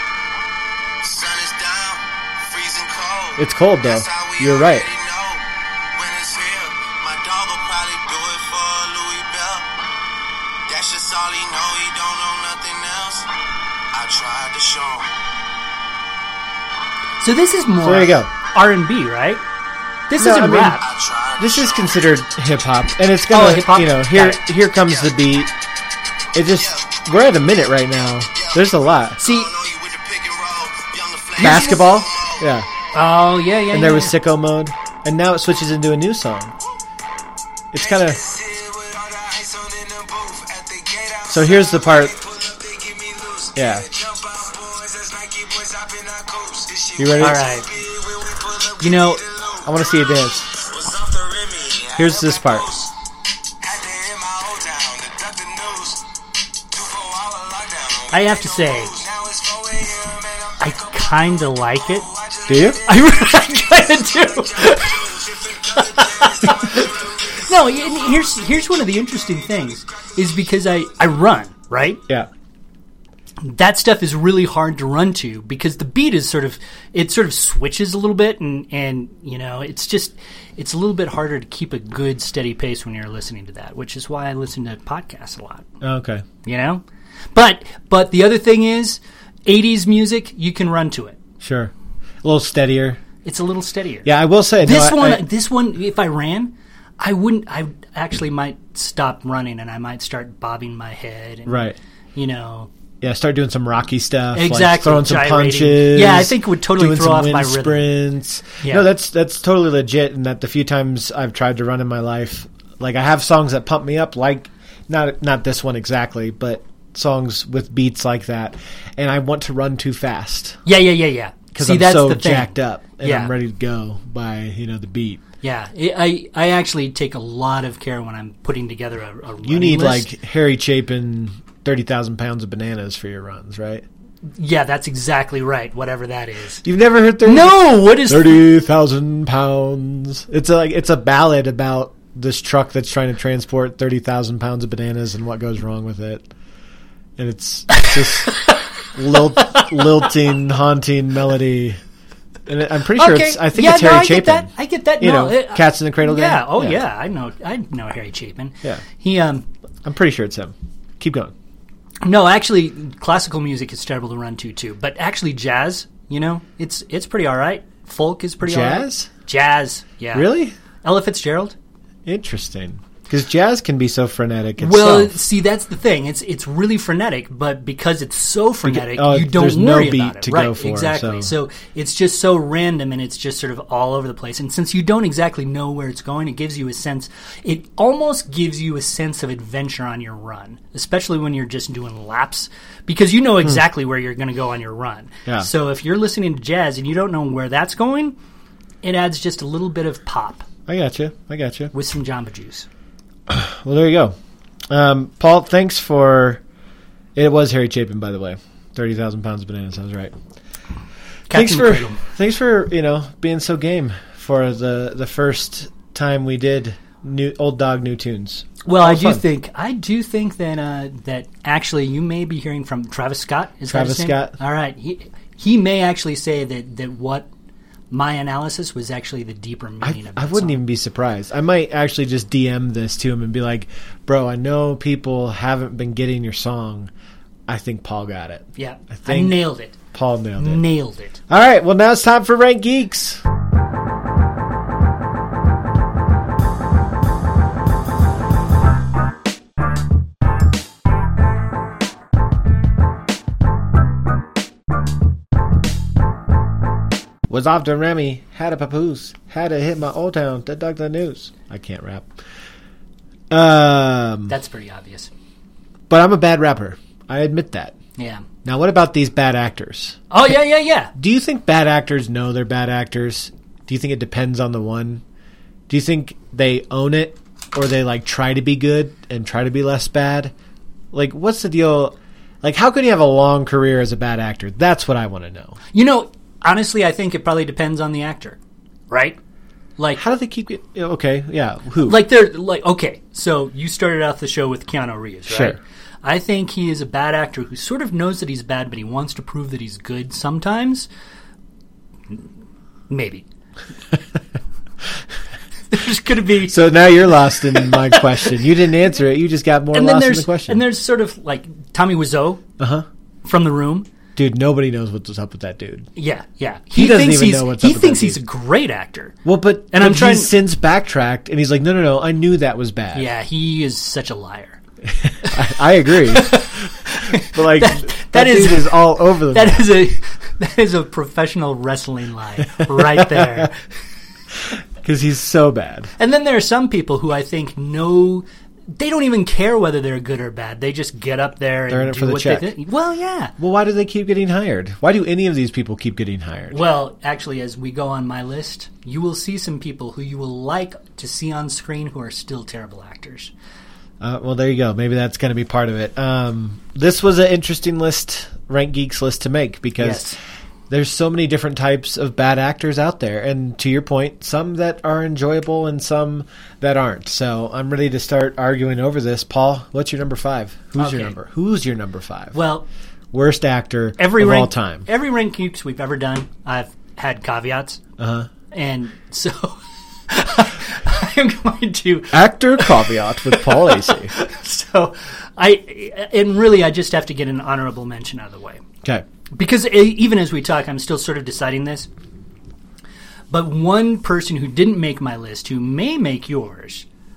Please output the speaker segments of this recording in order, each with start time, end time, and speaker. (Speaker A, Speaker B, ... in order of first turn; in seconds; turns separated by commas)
Speaker A: 1.0-5.4, Speaker B: 3.4-4.8, Speaker A: 6.0-9.7, Speaker A: 10.7-13.3, Speaker A: 13.9-15.1, Speaker C: 17.2-19.4, Speaker B: 17.8-18.3, Speaker C: 20.1-20.8, Speaker B: 20.2-20.8, Speaker A: 20.7-21.9, Speaker B: 21.4-25.5, Speaker C: 23.3-24.4, Speaker A: 24.9-25.1, Speaker B: 26.3-29.2, Speaker A: 26.6-27.0, Speaker A: 28.3-28.6, Speaker A: 29.2-32.5, Speaker C: 29.2-29.5, Speaker B: 31.4-32.7, Speaker C: 31.4-31.8, Speaker C: 32.9-34.1, Speaker B: 33.7-36.5, Speaker B: 37.7-38.2, Speaker A: 37.8-52.9, Speaker B: 41.3-42.1, Speaker B: 43.5-43.9, Speaker B: 47.0-47.4, Speaker C: 47.2-47.7, Speaker C: 48.8-49.2, Speaker B: 49.6-50.5, Speaker B: 52.0-52.7, Speaker A: 53.6-56.1, Speaker A: 56.7-70.4, Speaker C: 58.1-58.9, Speaker C: 60.6-62.0, Speaker B: 62.5-62.8, Speaker C: 62.9-65.0, Speaker C: 65.7-72.0, Speaker C: 73.4-85.7, Speaker B: 85.8-86.2, Speaker C: 86.4-86.8, Speaker C: 87.3-91.2, Speaker B: 91.4-91.7, Speaker B: 92.2-93.0, Speaker C: 93.2-94.1, Speaker B: 94.0-95.2, Speaker C: 94.6-101.6, Speaker B: 101.5-101.8, Speaker C: 102.1-102.7, Speaker B: 103.0-120.6, Speaker C: 104.3-107.9, Speaker C: 108.6-108.9, Speaker C: 120.6-123.3, Speaker B: 121.5-125.2, Speaker C: 125.4-130.1, Speaker B: 129.4-133.8, Speaker C: 134.3-136.6, Speaker B: 136.6-146.3, Speaker C: 137.2-138.4, Speaker B: 147.2-148.4, Speaker C: 148.0-148.3, Speaker B: 148.9-151.8, Speaker B: 152.5-156.8, Speaker C: 152.9-159.4, Speaker B: 159.8-161.3, Speaker C: 162.0-170.3, Speaker B: 168.4-169.1, Speaker B: 170.1-170.5, Speaker C: 170.8-171.6, Speaker B: 172.1-175.2, Speaker C: 174.6-198.2, Speaker B: 178.7-181.3, Speaker C: 198.8-200.4, Speaker B: 200.7-201.7, Speaker C: 201.7-202.7, Speaker B: 203.3-204.1, Speaker B: 204.7-206.4, Speaker B: 207.2-210.1, Speaker C: 211.3-212.0, Speaker B: 211.3-219.2, Speaker C: 218.6-227.3, Speaker B: 223.7-224.3, Speaker C: 227.9-230.6, Speaker B: 229.8-236.9, Speaker B: 237.5-240.6, Speaker C: 238.6-239.8, Speaker C: 240.4-241.2, Speaker B: 241.3-243.2, Speaker B: 257.3-262.1, Speaker B: 263.3-264.3, Speaker C: 264.3-265.1, Speaker B: 265.9-267.8, Speaker C: 268.0-268.2, Speaker B: 268.4-270.0, Speaker C: 270.1-270.9, Speaker B: 270.9-275.0, Speaker B: 275.7-280.3, Speaker B: 280.9-285.6, Speaker C: 285.7-288.4, Speaker C: 288.9-289.2, Speaker C: 289.8-290.0, Speaker B: 290.0-292.0, Speaker C: 291.8-300.9, Speaker B: 295.3-295.6, Speaker C: 302.9-303.2, Speaker C: 305.7-306.6, Speaker B: 306.5-310.6, Speaker C: 307.5-308.4, Speaker C: 309.7-312.4, Speaker B: 312.6-312.9, Speaker C: 313.2-313.9, Speaker B: 314.1-315.9, Speaker C: 315.9-319.2, Speaker B: 316.7-318.2, Speaker B: 319.2-323.1, Speaker C: 319.7-320.3, Speaker C: 322.9-324.6, Speaker B: 325.0-329.7, Speaker C: 325.2-333.6, Speaker B: 332.6-333.5, Speaker B: 334.8-335.9, Speaker C: 336.0-343.3, Speaker B: 341.7-342.5, Speaker B: 343.4-346.6, Speaker C: 346.5-353.3, Speaker B: 354.0-360.1, Speaker C: 359.8-360.2, Speaker B: 360.7-372.4, Speaker C: 370.8-371.1, Speaker C: 372.3-372.7, Speaker B: 373.1-374.9, Speaker C: 374.0-377.8, Speaker B: 378.0-378.3, Speaker C: 378.5-388.6, Speaker B: 382.1-384.1, Speaker C: 389.3-391.9, Speaker C: 393.3-396.9